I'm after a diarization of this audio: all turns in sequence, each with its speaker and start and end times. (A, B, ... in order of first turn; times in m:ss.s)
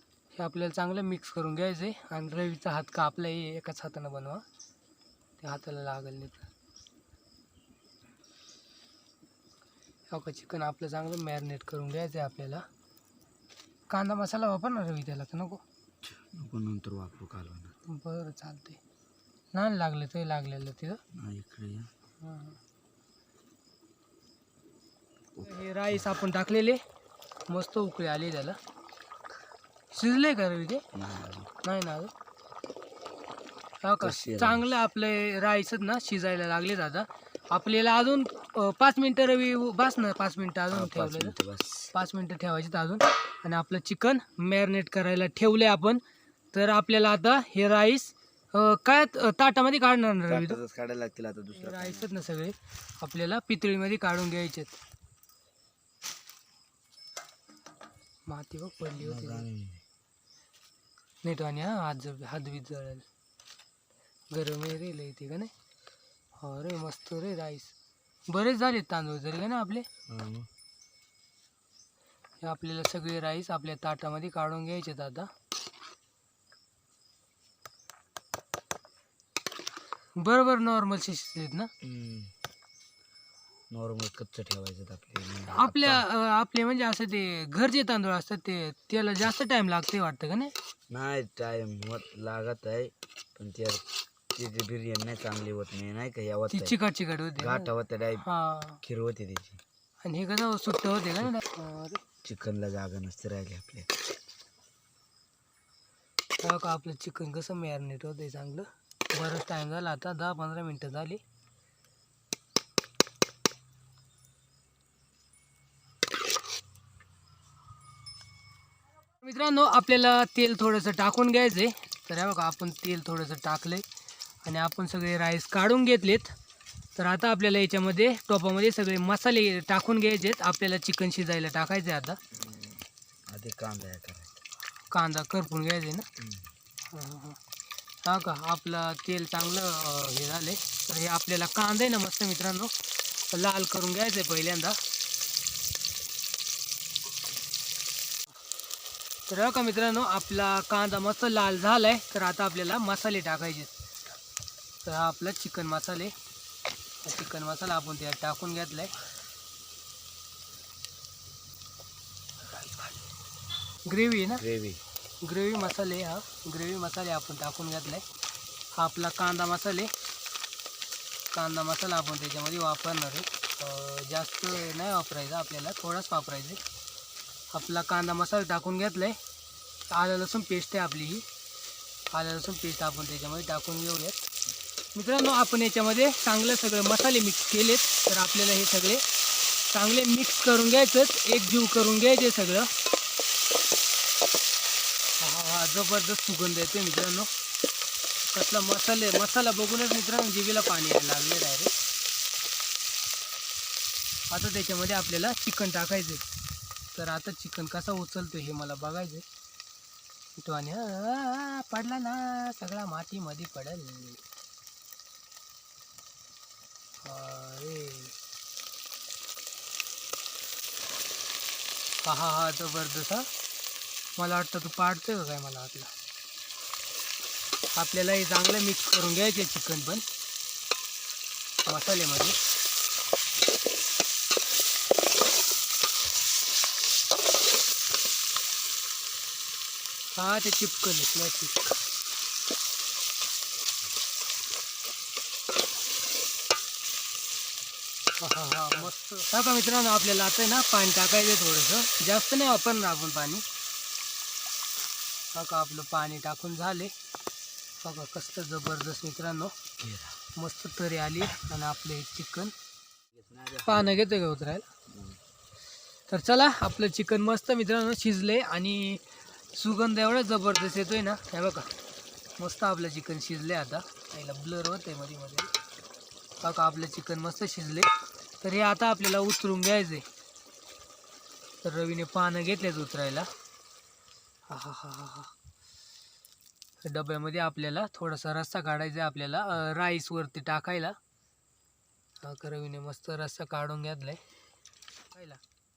0:00.3-0:04.4 A
0:05.4-0:06.5 A
0:10.1-0:12.6 A
0:13.9-0:15.6 A
0:16.0-0:17.7 B
0:17.8-0:18.8 A
0:19.5-0:21.0 A
0:21.1-0:21.9 B
0:22.2-0:22.6 A
0:25.3-0:26.0 B
0:25.4-0:26.8 A
0:27.5-0:28.6 A
0:29.9-0:30.8 A
0:30.9-0:31.5 B
0:31.6-0:32.1 A
0:33.8-0:41.4 A
0:34.0-0:34.7 B
0:40.7-0:41.9 B
0:41.9-0:46.0 A
0:46.5-0:50.6 A
0:50.3-0:52.1 B
0:51.6-0:54.8 A
0:58.3-0:59.4 A
0:59.0-0:59.8 B
1:01.2-1:03.0 A
1:04.3-1:05.5 A
1:06.4-1:07.7 A
1:08.3-1:09.9 A
1:10.1-1:10.5 B
1:12.4-1:15.3 A
1:20.2-1:21.7 A
1:21.8-1:22.3 B
1:23.7-1:26.0 B
1:25.5-1:30.5 A
1:30.9-1:36.8 B
1:36.5-1:37.7 A
1:37.4-1:38.3 B
1:38.2-1:38.8 A
1:38.8-1:39.6 B
1:40.0-1:42.0 A
1:42.2-1:43.9 B
1:46.4-1:51.2 A
1:59.2-2:03.8 A
2:04.4-2:06.3 A
2:07.0-2:12.2 A
2:13.3-2:14.4 B
2:14.9-2:16.0 A
2:16.2-2:16.4 B
2:16.9-2:17.4 A
2:18.0-2:22.7 A
2:23.3-2:24.8 A
2:29.3-2:33.7 A
2:34.8-2:36.1 A
2:37.0-2:38.9 A
2:43.8-2:44.4 A
2:44.4-2:44.8 B
2:45.2-2:48.0 A
2:48.7-2:49.9 A
2:51.3-2:56.6 A
2:57.5-2:59.2 A
2:59.9-3:01.2 A
3:02.1-3:04.2 A
3:04.9-3:09.0 A
3:09.7-3:12.7 A
3:15.2-3:17.3 A
3:18.3-3:21.7 A
3:24.3-3:26.2 A
3:26.9-3:29.2 A
3:30.4-3:34.2 A
3:37.0-3:38.1 A
3:42.0-3:43.3 A
3:44.2-3:45.9 A
3:47.7-3:50.0 A
3:51.6-3:52.4 A
4:00.2-4:01.6 A
4:08.2-4:13.4 A
4:15.3-4:16.9 A
4:17.8-4:19.6 A
4:19.8-4:20.2 B
4:20.4-4:22.5 A
4:23.1-4:24.0 B
4:23.6-4:24.7 A
4:24.9-4:25.2 B
4:26.1-4:31.7 A
4:32.4-4:35.5 A
4:36.4-4:37.9 A
4:38.4-4:40.0 A
4:41.6-4:43.3 A
4:44.5-4:45.3 A
4:46.8-4:51.0 A
4:52.2-4:54.2 A
4:55.1-4:55.4 A